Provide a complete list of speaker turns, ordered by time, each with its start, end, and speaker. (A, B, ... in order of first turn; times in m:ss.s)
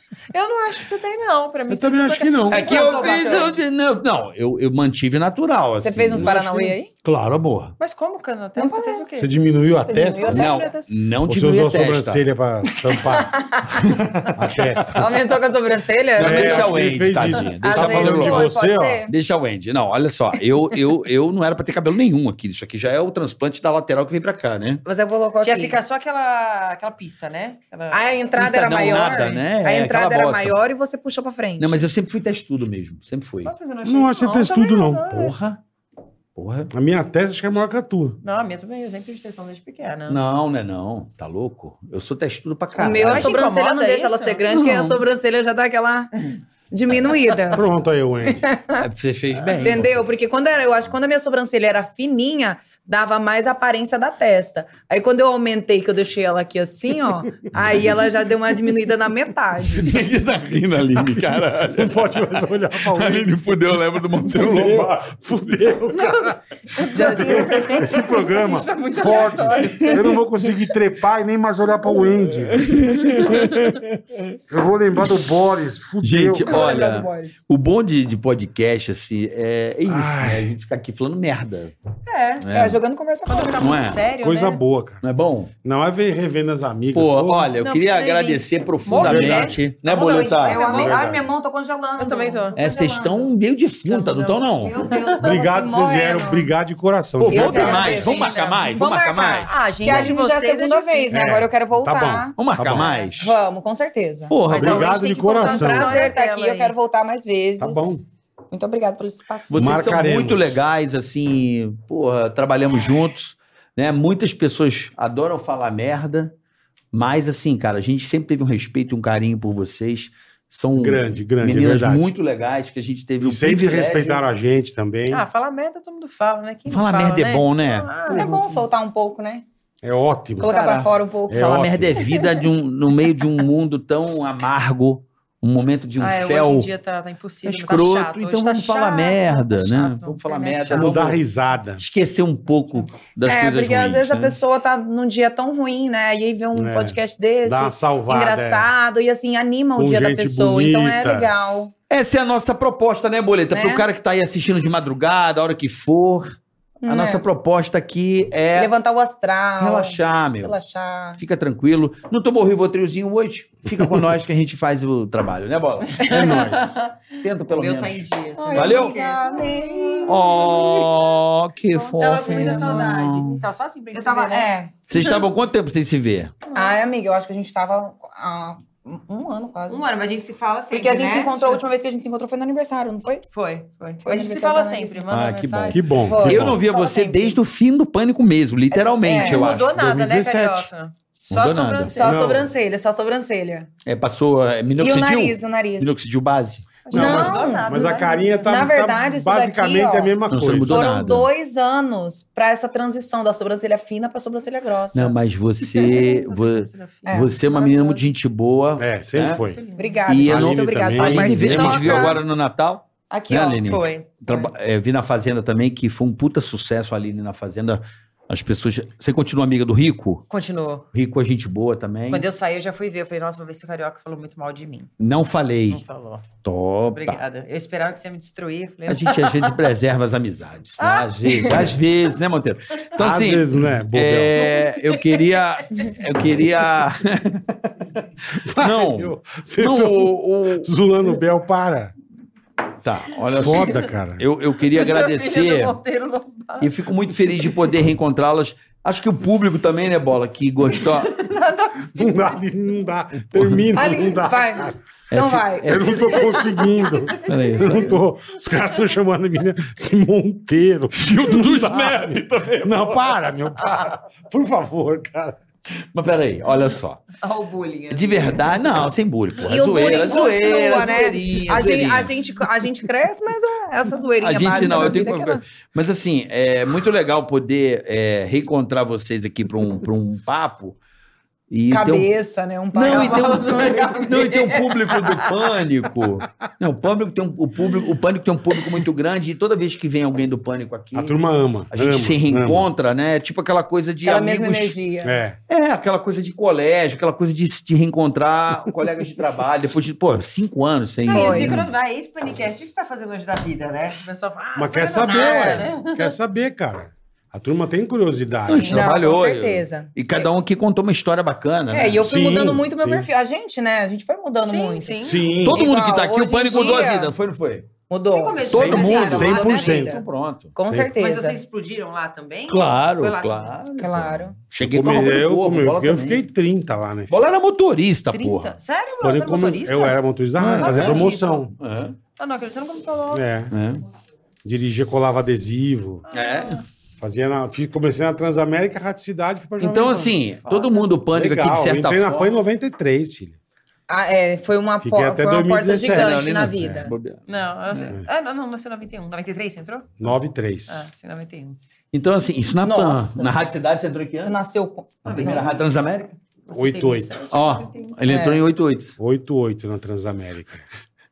0:00.3-0:03.6 A
0:01.7-0:03.1 B
0:02.5-0:07.7 C
0:05.8-0:06.9 D
0:06.2-0:06.4 B
0:07.8-0:09.3 A
0:08.6-0:09.2 D
0:09.2-0:10.4 B
0:09.8-0:10.7 D
0:10.2-0:10.9 A
0:10.3-0:12.2 C
0:11.2-0:13.3 B
0:12.9-0:13.9 D
0:13.8-0:15.0 C
0:14.4-0:15.1 B
0:15.0-0:16.8 D
0:16.2-0:18.5 C
0:16.2-0:19.0 B
0:17.3-0:19.1 D
0:19.1-0:24.8 C
0:24.8-0:25.8 D
0:25.4-0:28.1 A
0:27.9-0:31.9 D
0:28.4-0:30.6 C
0:29.1-0:29.4 A
0:31.6-0:33.5 C
0:33.4-0:35.4 A
0:33.8-0:35.1 B
0:35.1-0:35.6 C
0:36.4-0:36.7 C
0:36.7-0:38.2 B
0:38.2-0:40.2 A
0:40.1-0:43.3 C
0:42.8-0:46.1 D
0:43.1-0:44.4 A
0:44.5-0:45.0 C
0:46.7-0:47.6 D
0:47.5-0:48.4 B
0:48.3-0:48.8 D
0:48.8-0:50.1 C
0:49.6-1:00.0 D
0:59.7-1:02.3 C
1:01.7-1:03.3 B
1:02.8-1:05.0 C
1:04.2-1:12.8 B
1:05.9-1:10.3 A
1:09.6-1:10.0 C
1:12.4-1:14.4 C
1:13.1-1:13.7 A
1:14.5-1:16.7 B
1:16.0-1:21.8 C
1:16.4-1:17.4 D
1:19.9-1:20.5 B
1:22.1-1:22.4 A
1:22.4-1:22.8 C
1:22.5-1:23.8 D
1:23.3-1:24.6 A
1:23.6-1:24.0 C
1:24.2-1:25.0 B
1:25.0-1:25.5 C
1:25.6-1:27.5 B
1:26.9-1:30.8 C
1:27.6-1:31.0 A
1:28.9-1:29.6 B
1:30.4-1:33.3 D
1:30.7-1:31.3 B
1:32.0-1:32.6 A
1:32.6-1:34.7 C
1:33.8-1:35.4 A
1:34.6-1:36.5 D
1:35.2-1:38.2 B
1:37.2-1:40.1 C
1:37.3-1:49.8 D
1:37.5-1:38.8 A
1:39.4-1:41.4 A
1:41.1-1:42.9 B
1:42.4-1:43.3 C
1:42.8-1:43.1 A
1:44.3-1:44.9 C
1:44.5-1:46.7 A
1:44.5-1:46.1 B
1:47.6-1:48.0 B
1:49.5-1:56.3 C
1:49.5-1:50.6 B
1:56.9-2:04.2 C
2:00.8-2:02.1 B
2:03.2-2:05.2 B
2:05.1-2:08.5 A
2:06.7-2:08.4 C
2:08.1-2:09.4 D
2:09.8-2:10.5 B
2:10.4-2:16.7 C
2:10.4-2:11.6 D
2:11.3-2:12.0 B
2:12.1-2:12.4 A
2:16.0-2:21.0 A
2:17.4-2:21.2 C
2:20.7-2:21.8 B
2:21.8-2:24.4 C
2:23.2-2:31.7 D
2:26.5-2:28.7 B
2:29.8-2:31.3 B
2:31.9-2:38.7 C
2:33.5-2:33.8 D
2:36.8-2:37.2 D
2:38.6-2:41.2 D
2:39.6-2:40.6 C
2:41.2-2:46.5 C
2:43.8-2:44.1 B
2:46.0-2:51.1 A
2:46.1-2:46.8 B
2:47.2-2:48.9 C
2:48.4-2:50.3 D
2:50.1-2:53.4 C
2:51.7-2:55.2 A
2:52.0-2:53.2 D
2:53.9-2:55.2 D
2:54.9-2:56.4 C
2:56.4-2:56.8 A
2:56.5-2:59.8 D
2:59.7-3:01.6 A
3:00.7-3:03.2 D
3:03.3-3:05.8 A
3:04.0-3:05.1 D
3:05.1-3:10.6 C
3:05.7-3:06.6 B
3:06.0-3:07.4 D
3:08.7-3:09.5 D
3:09.0-3:12.2 A
3:09.8-3:10.5 B
3:11.3-3:11.9 C
3:11.8-3:13.7 D
3:12.0-3:12.5 B
3:13.8-3:17.2 C
3:14.8-3:16.0 D
3:16.8-3:18.6 A
3:16.9-3:17.9 D
3:16.9-3:20.8 B
3:18.5-3:20.2 D
3:20.3-3:21.3 C
3:20.7-3:25.1 D
3:24.9-3:29.4 C
3:25.7-3:27.3 A
3:27.1-3:28.0 D
3:28.8-3:29.6 B
3:29.4-3:30.2 A
3:29.8-3:32.2 D
3:30.1-3:40.3 C
3:30.2-3:32.2 B
3:33.1-3:33.9 D
3:33.6-3:34.5 A
3:40.3-3:40.9 A
3:40.9-3:42.2 C
3:42.1-3:44.9 A
3:45.0-3:45.8 C
3:45.7-3:46.3 A
3:46.4-3:47.2 C
3:46.9-3:49.7 A
3:48.9-4:00.7 C
3:50.8-3:52.1 A
3:53.0-3:54.3 B
3:54.3-3:56.0 A
3:58.4-4:01.9 B
4:02.8-4:05.8 C
4:03.3-4:04.3 B
4:04.6-4:06.8 A
4:06.6-4:11.1 C
4:10.6-4:12.5 A
4:11.9-4:14.8 B
4:13.3-4:13.8 C
4:13.7-4:15.9 D
4:15.1-4:16.3 C
4:15.6-4:25.4 B
4:15.9-4:17.9 A
4:17.2-4:18.0 C
4:21.0-4:23.2 C
4:25.8-4:27.1 C
4:27.2-4:28.9 A
4:27.9-4:32.2 C
4:29.4-4:31.1 A
4:29.4-4:35.4 D
4:34.2-4:40.8 C
4:41.5-4:42.1 C
4:41.7-4:43.9 D
4:42.7-4:51.2 C
4:42.8-4:45.5 A
4:50.9-4:52.7 B
4:51.7-4:54.7 C
4:54.0-4:55.2 D
4:55.0-4:55.4 B
4:55.5-5:01.7 C
5:01.0-5:06.2 A
5:01.1-5:01.5 D
5:04.6-5:09.0 B
5:05.1-5:05.7 D
5:08.5-5:12.1 C
5:08.6-5:10.3 D
5:11.7-5:17.1 D
5:12.0-5:13.1 B
5:14.4-5:15.3 A
5:15.0-5:15.6 B
5:15.3-5:17.7 C
5:17.9-5:20.0 D
5:18.1-5:20.0 A
5:18.5-5:20.5 C
5:18.5-5:20.0 B
5:20.6-5:21.4 D
5:20.6-5:20.9 B
5:21.0-5:23.6 A
5:22.5-5:26.2 C
5:23.8-5:24.4 D
5:24.5-5:27.1 B
5:27.1-5:28.5 C
5:28.1-5:31.5 A
5:29.0-5:31.5 B
5:30.4-5:31.1 C
5:31.6-5:32.0 C
5:32.2-5:33.2 A
5:33.1-5:33.5 B
5:33.5-5:33.8 C
5:34.4-5:36.0 B
5:36.1-5:36.6 A
5:36.1-5:36.6 C
5:37.0-5:40.2 B
5:39.6-5:42.3 C
5:40.5-5:40.8 A
5:41.1-5:43.4 B
5:43.9-5:46.9 D
5:44.8-5:46.9 B
5:45.8-5:47.2 C
5:47.3-5:50.1 A
5:50.0-5:50.8 B
5:50.7-5:51.6 A
5:51.9-5:54.4 C
5:52.6-5:53.4 D
5:54.2-5:54.9 D
5:55.0-5:56.2 C
5:55.0-5:55.6 A
5:56.5-5:58.0 A
5:56.5-5:57.1 B
5:57.3-5:58.9 C
5:58.1-5:58.4 D
5:59.0-6:00.7 B